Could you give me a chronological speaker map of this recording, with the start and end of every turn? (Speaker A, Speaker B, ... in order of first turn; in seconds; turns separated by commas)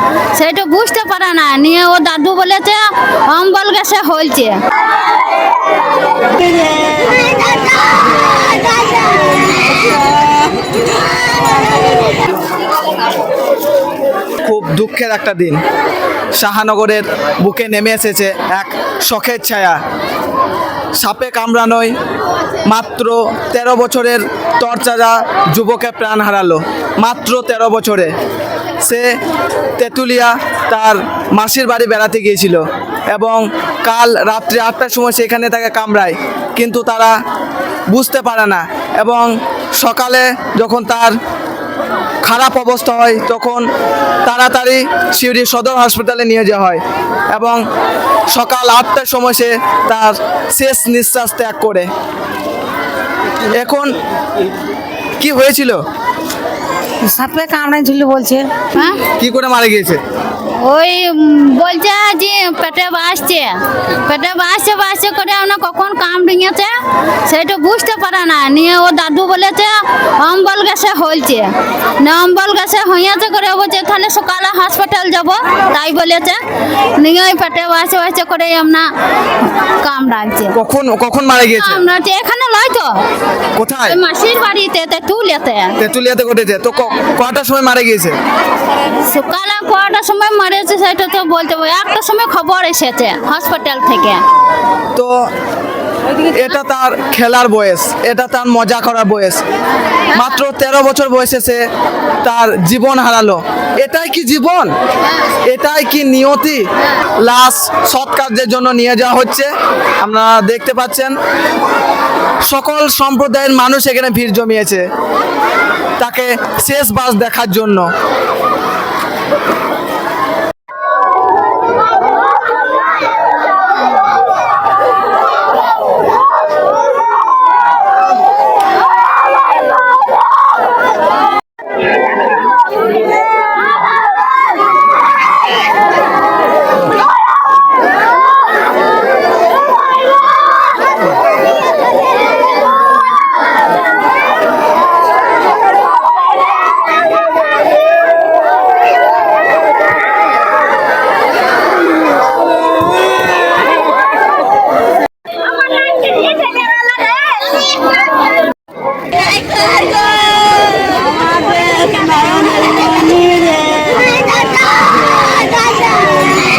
Speaker A: 0.3-4.6, Speaker B: 14.4-15.6, Speaker B: 16.4-19.8, Speaker B: 21.0-21.9, Speaker B: 22.6-28.1, Speaker B: 28.8-29.1, Speaker B: 29.8-32.6, Speaker B: 33.1-37.1, Speaker B: 37.9-41.1, Speaker B: 42.2-43.6, Speaker B: 44.2-46.8, Speaker B: 47.3-47.6, Speaker B: 48.3-51.9, Speaker B: 53.6-53.9, Speaker B: 55.2-55.8, Speaker C: 57.0-58.5, Speaker A: 58.7-59.0, Speaker B: 59.1-60.0, Speaker A: 60.5-66.7, Speaker A: 67.3-71.5, Speaker A: 72.0-76.4, Speaker A: 77.0-78.9, Speaker A: 79.4-80.5, Speaker B: 80.5-81.8, Speaker A: 81.6-83.0, Speaker B: 83.5-84.0, Speaker A: 83.9-85.7, Speaker B: 85.8-88.1, Speaker A: 89.0-94.2, Speaker B: 96.2-99.4, Speaker B: 100.1-101.6, Speaker B: 102.2-104.7, Speaker B: 105.5-106.6, Speaker B: 107.2-109.5, Speaker B: 110.0-111.1, Speaker B: 112.5-114.8, Speaker B: 116.0-117.9, Speaker C: 161.1-164.1